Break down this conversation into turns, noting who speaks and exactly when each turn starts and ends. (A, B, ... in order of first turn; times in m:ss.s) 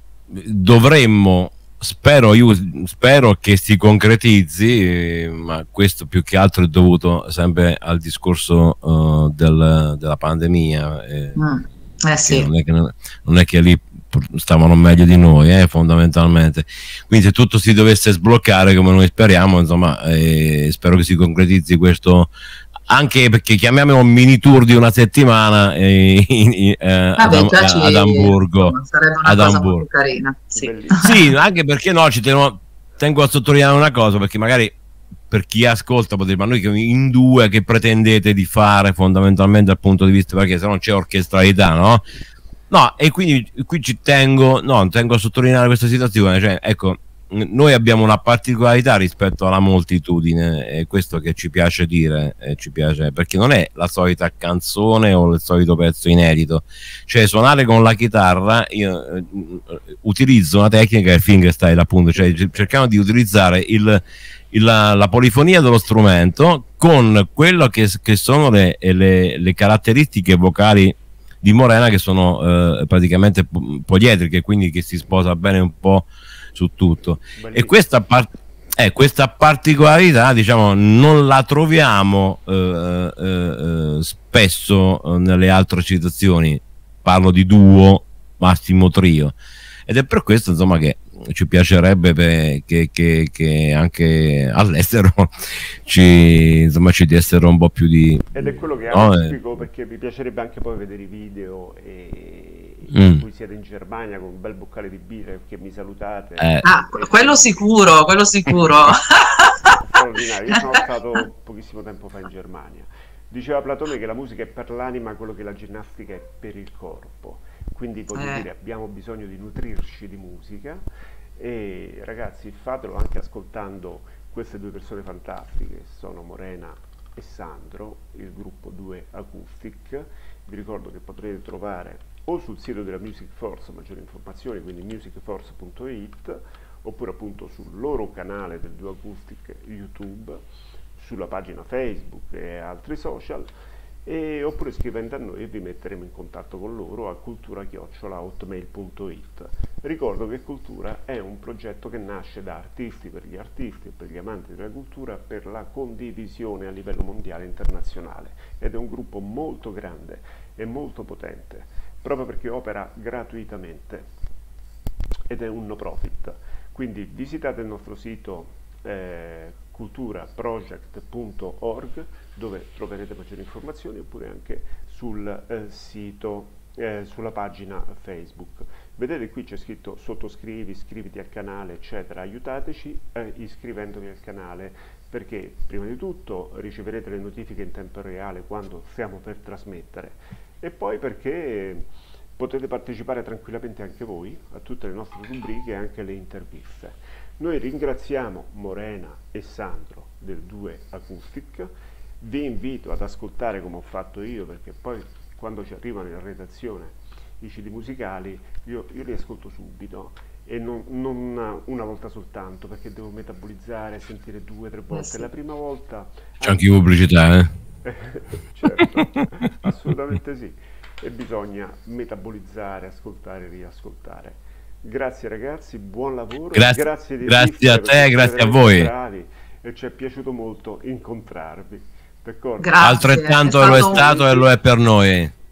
0:00.3-0:11.4 A
0:11.4-0:12.5 B
0:12.2-0:22.3 A
0:22.9-0:29.8 A
0:27.2-0:31.3 B
0:30.5-0:31.2 C
0:31.0-0:34.8 A
0:35.3-0:42.0 A
0:42.7-1:18.3 A
1:17.4-1:17.8 C
1:18.8-1:29.3 A
1:29.9-1:35.3 A
1:35.8-1:39.3 A
1:38.3-1:47.6 C
1:42.9-1:43.2 A
1:46.4-1:46.7 A
1:46.6-1:49.8 B
1:49.8-2:00.8 C
1:58.1-1:58.4 B
2:01.4-2:23.5 C
2:24.0-2:44.0 C
2:45.3-3:11.8 C
3:12.4-3:36.8 C
3:34.9-3:35.3 B
3:36.4-3:37.5 A
3:37.8-3:52.9 C
3:46.5-3:48.9 A
3:52.6-3:54.2 B
3:52.8-3:55.3 A
3:53.6-3:54.4 C